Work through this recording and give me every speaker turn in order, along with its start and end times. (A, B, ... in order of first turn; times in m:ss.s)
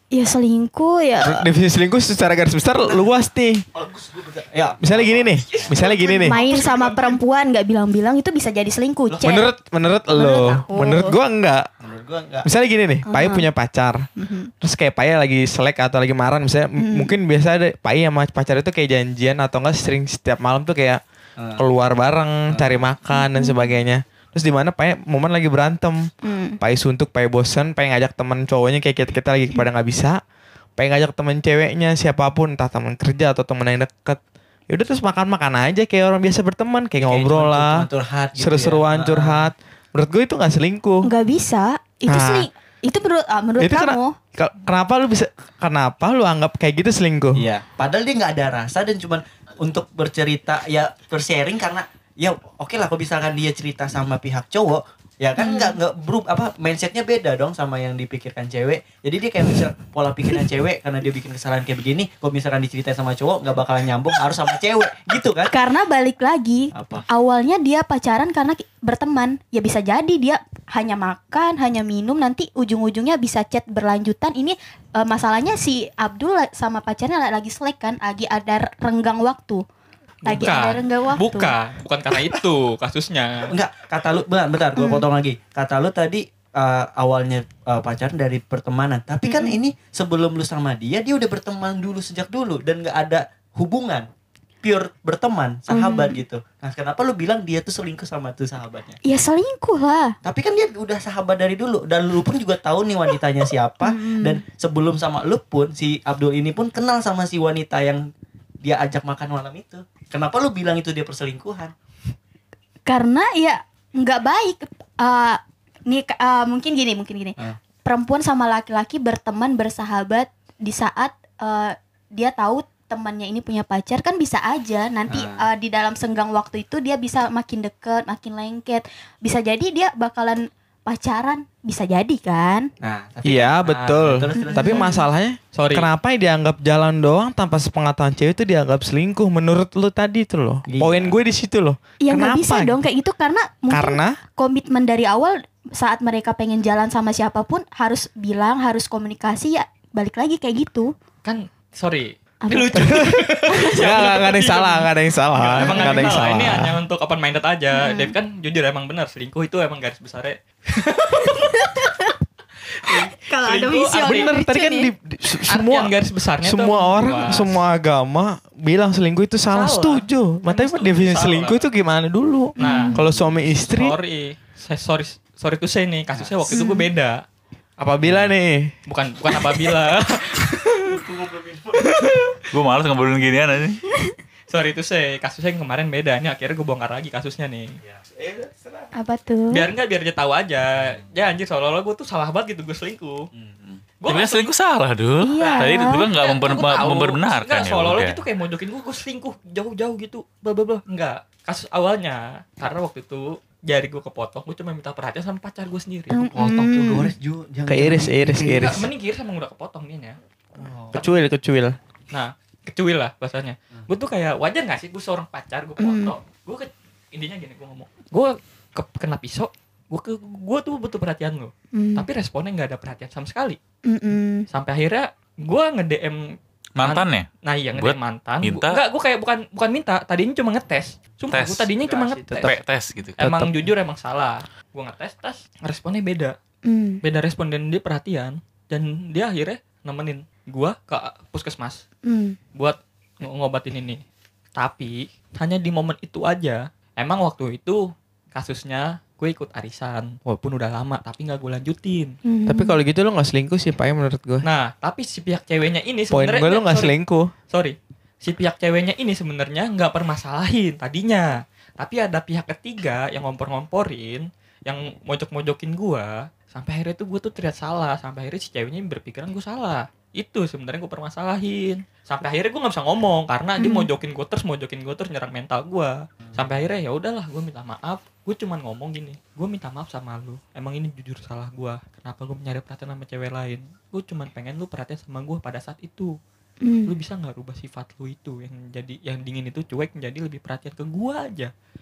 0:00.1-0:01.5 A
0:01.2-0:03.6 B
0:03.7-0:06.5 C
0:04.8-0:06.4 B
0:05.5-0:07.2 D
0:05.8-0:09.5 A
0:09.2-0:11.7 B
0:10.1-0:11.2 A
0:11.8-0:12.5 C
0:12.4-0:14.0 B
0:13.1-0:13.5 A
0:14.2-0:14.5 A
0:14.6-0:21.0 B
0:16.8-0:17.1 A
0:21.4-0:21.6 C
0:21.6-0:26.1 B
0:22.5-0:22.9 C
0:23.1-0:23.8 A
0:26.2-0:26.6 A
0:26.6-0:30.2 B
0:30.8-0:41.1 B
0:37.0-0:39.5 C
0:41.0-0:44.2 A
0:42.1-0:42.5 B
0:43.6-0:47.4 B
0:47.4-1:05.5 C
0:55.4-0:55.7 A
1:05.5-1:19.6 A
1:06.7-1:07.0 C
1:20.2-1:23.5 D
1:20.2-1:21.6 A
1:23.5-1:34.1 C
1:24.8-1:25.0 A
1:29.3-1:29.6 A
1:34.6-1:39.0 C
1:35.7-1:36.2 A
1:39.0-1:40.2 A
1:40.2-1:48.0 C
1:43.8-1:44.4 A
1:48.6-1:51.7 C
1:52.8-2:12.7 A
2:05.1-2:05.4 C
2:12.8-2:14.9 C
2:13.2-2:22.8 B
2:14.4-2:15.0 A
2:15.5-2:15.9 D
2:20.6-2:21.2 C
2:22.0-2:30.9 A
2:23.7-2:24.2 B
2:31.2-2:41.8 D
2:32.4-2:33.8 A
2:32.8-2:36.8 B
2:35.6-2:36.3 A
2:37.7-2:38.1 A
2:41.2-2:42.1 A
2:42.8-2:44.3 D
2:42.8-2:44.9 A
2:44.0-2:54.0 B
2:45.5-2:47.6 D
2:49.5-2:51.6 D
2:52.6-2:52.9 A
2:52.6-2:53.0 D
2:53.0-2:53.4 C
2:53.6-2:57.2 D
2:56.1-2:56.5 C
2:56.5-2:56.9 A
2:57.8-2:58.7 B
2:58.0-2:58.3 C
2:58.8-3:01.1 D
3:00.8-3:01.9 C
3:01.8-3:02.5 D
3:02.5-3:03.8 E
3:04.5-3:07.8 D
3:07.9-3:08.9 C
3:08.9-3:09.7 A
3:09.5-3:13.3 D
3:13.3-3:13.8 C
3:14.0-3:14.5 D
3:14.0-3:18.2 E
3:15.2-3:16.1 A
3:15.4-3:26.3 D
3:26.1-3:27.1 A
3:26.2-3:28.8 C
3:27.7-3:28.9 B
3:28.4-3:30.2 D
3:30.6-3:31.0 C
3:30.9-3:31.8 B
3:30.9-3:31.2 D
3:32.1-3:43.6 D
3:35.8-3:36.1 A
3:41.7-3:42.0 A
3:43.8-3:44.4 A
3:44.5-3:46.2 D
3:46.8-3:48.8 E
3:46.8-3:52.6 D
3:51.3-3:51.7 E
3:51.8-3:52.2 C
3:52.2-3:52.5 B
3:52.4-3:53.2 E
3:53.2-3:56.4 D
3:53.2-3:53.6 B
3:56.6-3:57.0 A
3:57.0-4:01.8 D
4:02.0-4:02.4 A
4:02.5-4:04.0 D
4:04.6-4:12.1 D
4:12.2-4:12.8 A
4:12.5-4:14.4 B
4:14.4-4:16.9 D
4:16.1-4:17.3 B
4:17.5-4:46.1 D
4:33.6-4:33.9 A
4:36.2-4:36.6 C
4:46.6-4:46.9 A
4:46.8-4:51.5 D